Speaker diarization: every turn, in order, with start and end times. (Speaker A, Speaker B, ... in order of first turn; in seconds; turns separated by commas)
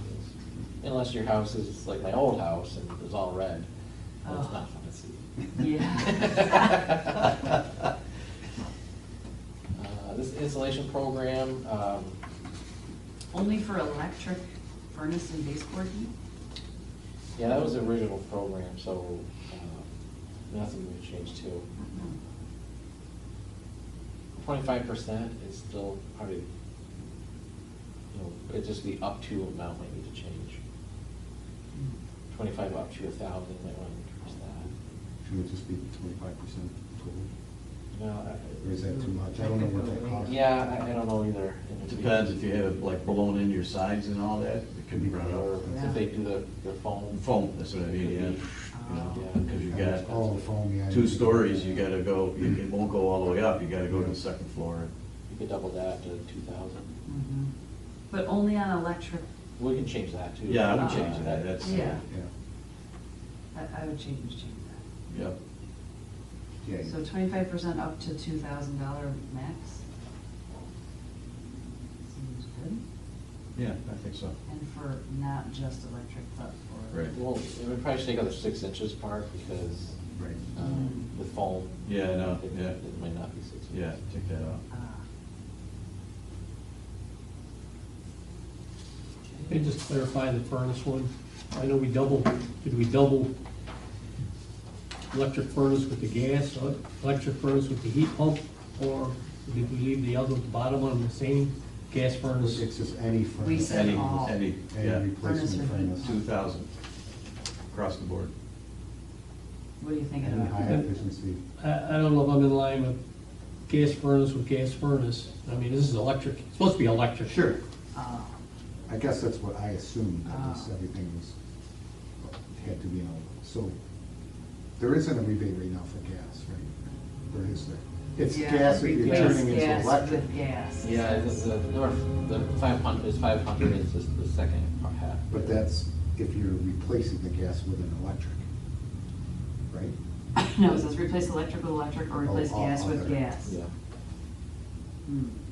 Speaker A: 0.8-3.7, Speaker B: 4.2-4.7, Speaker A: 4.2-7.4, Speaker B: 5.6-6.8, Speaker A: 9.8-12.2, Speaker B: 13.3-16.1, Speaker A: 17.4-19.9, Speaker A: 20.5-21.7, Speaker B: 21.8-22.1, Speaker A: 24.4-26.5, Speaker A: 28.1-30.6, Speaker B: 31.7-32.0, Speaker A: 32.3-34.7, Speaker C: 35.2-37.3, Speaker A: 37.9-38.8, Speaker C: 38.6-40.4, Speaker B: 38.8-40.3, Speaker A: 40.2-43.2, Speaker D: 41.8-45.5, Speaker A: 45.0-47.3, Speaker B: 45.6-46.0, Speaker D: 47.1-50.2, Speaker A: 47.8-48.5, Speaker B: 48.7-49.3, Speaker A: 49.1-50.4, Speaker C: 49.6-51.7, Speaker D: 50.9-54.9, Speaker C: 53.9-54.1, Speaker A: 55.3-56.9, Speaker B: 57.1-57.5, Speaker B: 58.1-59.2, Speaker A: 59.6-61.9, Speaker D: 60.5-62.0, Speaker B: 60.7-62.0, Speaker B: 63.5-64.8, Speaker D: 65.1-65.4, Speaker C: 66.7-67.0, Speaker B: 66.8-69.8, Speaker B: 72.1-72.8, Speaker D: 73.6-74.3, Speaker B: 74.5-77.1, Speaker A: 77.1-80.0, Speaker C: 80.2-80.4, Speaker A: 80.5-83.9, Speaker B: 80.6-81.1, Speaker D: 81.8-82.8, Speaker D: 83.7-84.6, Speaker B: 84.7-85.0, Speaker E: 89.5-93.3, Speaker E: 95.1-102.7, Speaker C: 102.3-106.1, Speaker B: 103.4-104.4, Speaker D: 103.7-105.1, Speaker B: 105.2-106.2, Speaker D: 106.0-106.7, Speaker D: 107.7-108.3, Speaker B: 109.8-110.8, Speaker C: 110.2-111.4, Speaker E: 110.6-110.8, Speaker E: 111.6-113.0, Speaker E: 113.7-117.4, Speaker C: 117.2-117.6, Speaker B: 117.9-118.4, Speaker C: 118.9-121.3, Speaker B: 120.3-120.7, Speaker C: 122.2-123.8, Speaker C: 124.8-126.7, Speaker C: 127.3-130.3, Speaker B: 128.2-131.5, Speaker E: 129.0-129.4, Speaker A: 130.8-135.6, Speaker C: 135.3-138.4, Speaker C: 139.7-139.9, Speaker B: 140.4-143.5, Speaker C: 142.2-143.2, Speaker A: 143.4-143.7, Speaker B: 145.1-145.4